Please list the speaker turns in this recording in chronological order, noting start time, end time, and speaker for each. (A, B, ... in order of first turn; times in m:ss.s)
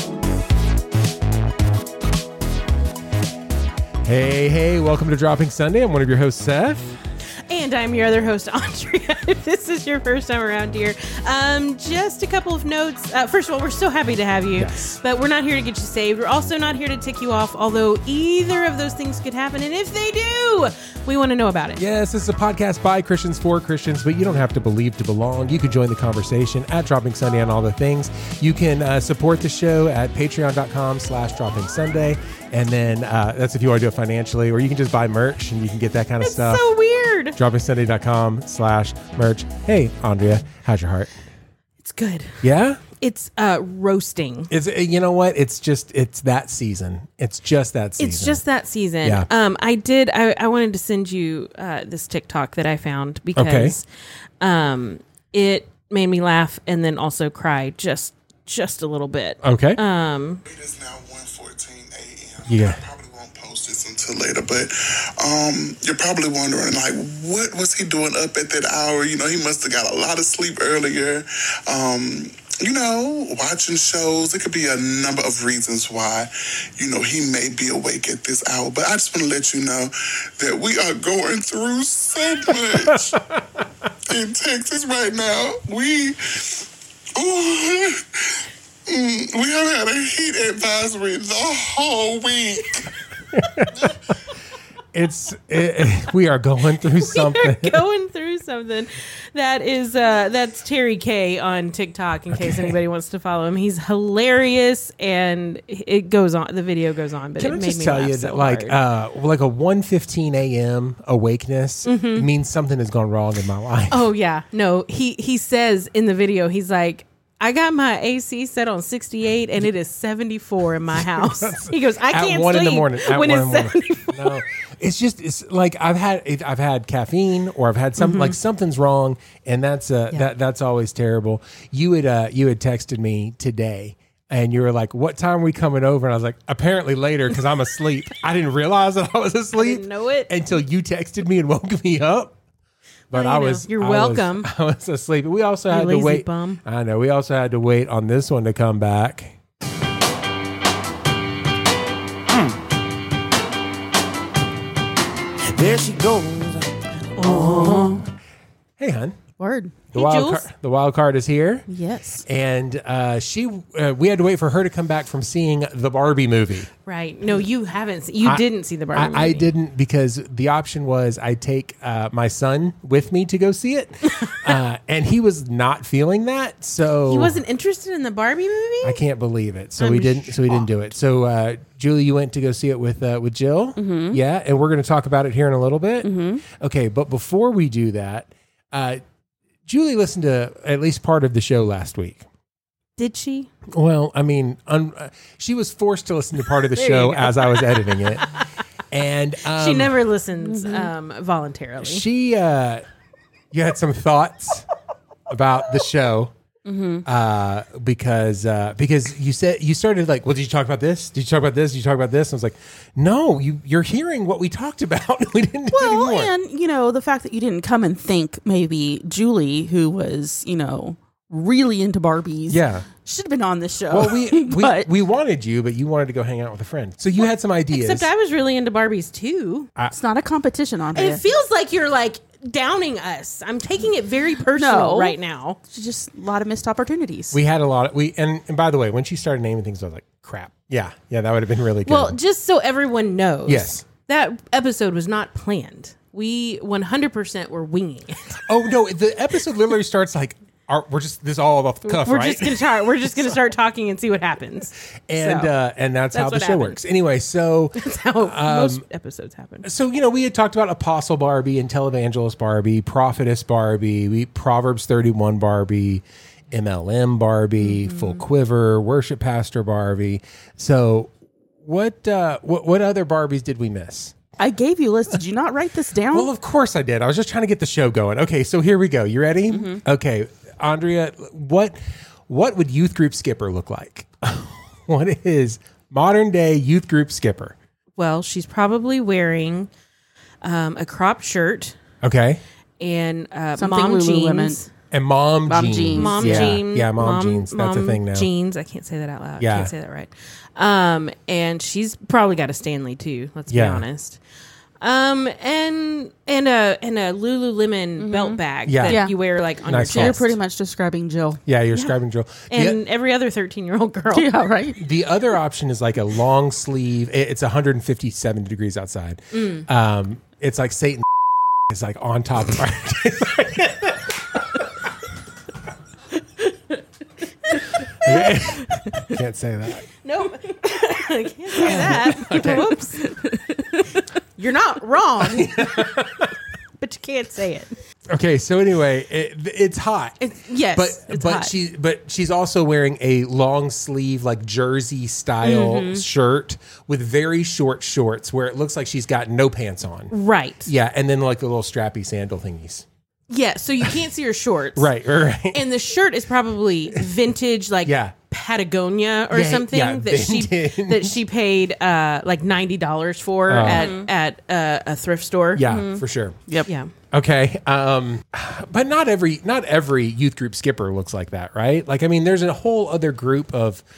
0:04.0-0:06.9 A
0:07.5-0:21.8 B
0:14.5-0:15.0 A
0:21.8-0:36.6 A
0:36.2-0:37.4 B
0:37.4-0:41.1 A
0:41.8-0:44.5 B
0:42.4-0:42.8 A
0:44.5-0:48.4 A
0:48.0-0:53.8 B
0:53.3-0:53.8 A
0:54.4-1:00.4 B
0:59.4-0:59.8 A
1:00.4-1:23.2 C
1:02.5-1:02.8 A
1:22.9-1:23.4 A
1:24.1-1:32.9 C
1:33.3-1:33.9 A
1:34.9-1:37.8 A
1:36.9-1:48.8 B
1:42.4-1:42.7 A
1:47.4-1:54.0 A
1:51.8-1:52.3 B
1:53.9-2:04.4 B
2:01.0-2:22.3 A
2:08.0-2:08.4 B
2:19.5-2:20.3 B
2:23.1-2:24.5 B
2:23.1-2:29.4 A
2:25.7-2:26.6 B
2:35.5-2:37.9 D
2:37.2-2:38.0 B
2:37.2-2:38.0 E
2:38.8-2:39.2 A
2:39.4-2:39.8 E
2:39.9-2:41.7 A
2:39.9-2:40.4 B
2:41.7-2:42.2 B
2:42.2-2:46.7 A
2:46.8-2:49.5 B
2:48.2-2:57.4 A
2:57.1-2:59.0 B
2:58.8-3:09.0 A
2:59.8-3:00.7 B
3:03.8-3:04.2 E
3:06.0-3:06.4 E
3:09.6-3:12.2 A
3:13.0-3:13.5 B
3:13.7-3:18.3 A
3:16.8-3:18.3 B
3:18.9-3:20.0 A
3:19.5-3:22.0 B
3:20.5-3:20.9 E
3:21.8-3:22.8 A
3:23.5-3:24.6 A
3:25.3-3:26.3 A
3:26.6-3:27.0 E
3:27.0-3:36.3 A
3:35.7-3:44.9 E
3:42.5-3:42.9 A
3:43.9-3:48.1 A
3:47.7-3:49.7 B
3:49.9-3:51.2 E
3:50.9-3:55.6 B
3:54.5-3:55.2 E
3:55.7-3:57.4 E
3:57.3-4:02.2 A
4:01.8-4:08.4 B
4:03.5-4:03.8 A
4:08.4-4:12.6 A
4:11.9-4:15.5 B
4:15.1-4:18.8 A
4:16.1-4:16.8 B
4:17.8-4:19.6 B
4:19.6-4:31.1 A
4:27.6-4:28.2 B
4:31.6-4:34.2 A
4:34.4-4:36.3 E
4:36.1-4:47.5 A
4:39.5-4:39.8 E
4:48.0-4:49.7 B
4:50.4-4:51.8 B
4:52.0-4:52.4 A
4:52.8-4:54.7 B
4:53.6-4:54.6 E
4:54.9-4:58.3 A
4:55.5-4:56.6 E
4:55.9-5:04.2 B
4:59.4-4:59.7 A
5:03.5-5:03.8 A
5:04.8-5:10.3 B
5:08.0-5:09.1 E
5:08.6-5:09.0 A
5:09.6-5:10.3 A
5:09.9-5:11.4 E
5:11.5-5:12.8 A
5:12.5-5:14.3 B
5:14.1-5:14.8 E
5:14.8-5:21.0 A
5:19.3-5:19.6 B
5:21.7-5:24.6 A
5:27.4-5:28.4 B
5:27.9-5:29.9 A
5:30.0-5:33.0 B
5:31.5-5:33.8 E
5:31.6-5:32.7 A
5:34.4-5:35.9 B
5:35.2-5:36.3 A
5:36.8-5:37.7 B
5:38.1-5:40.2 A
5:40.2-5:41.5 B
5:40.7-5:50.1 A
5:45.4-5:46.0 B
5:50.1-5:50.7 B
5:50.6-5:52.8 A
5:53.3-5:54.9 B
5:54.8-5:55.6 A
5:55.5-6:05.9 B
5:57.8-5:58.1 A
5:59.3-6:01.1 A
6:03.5-6:03.9 A
6:03.6-6:04.1 E
6:05.6-6:06.4 A
6:05.7-6:06.7 E
6:06.6-6:06.9 B
6:07.1-6:13.8 A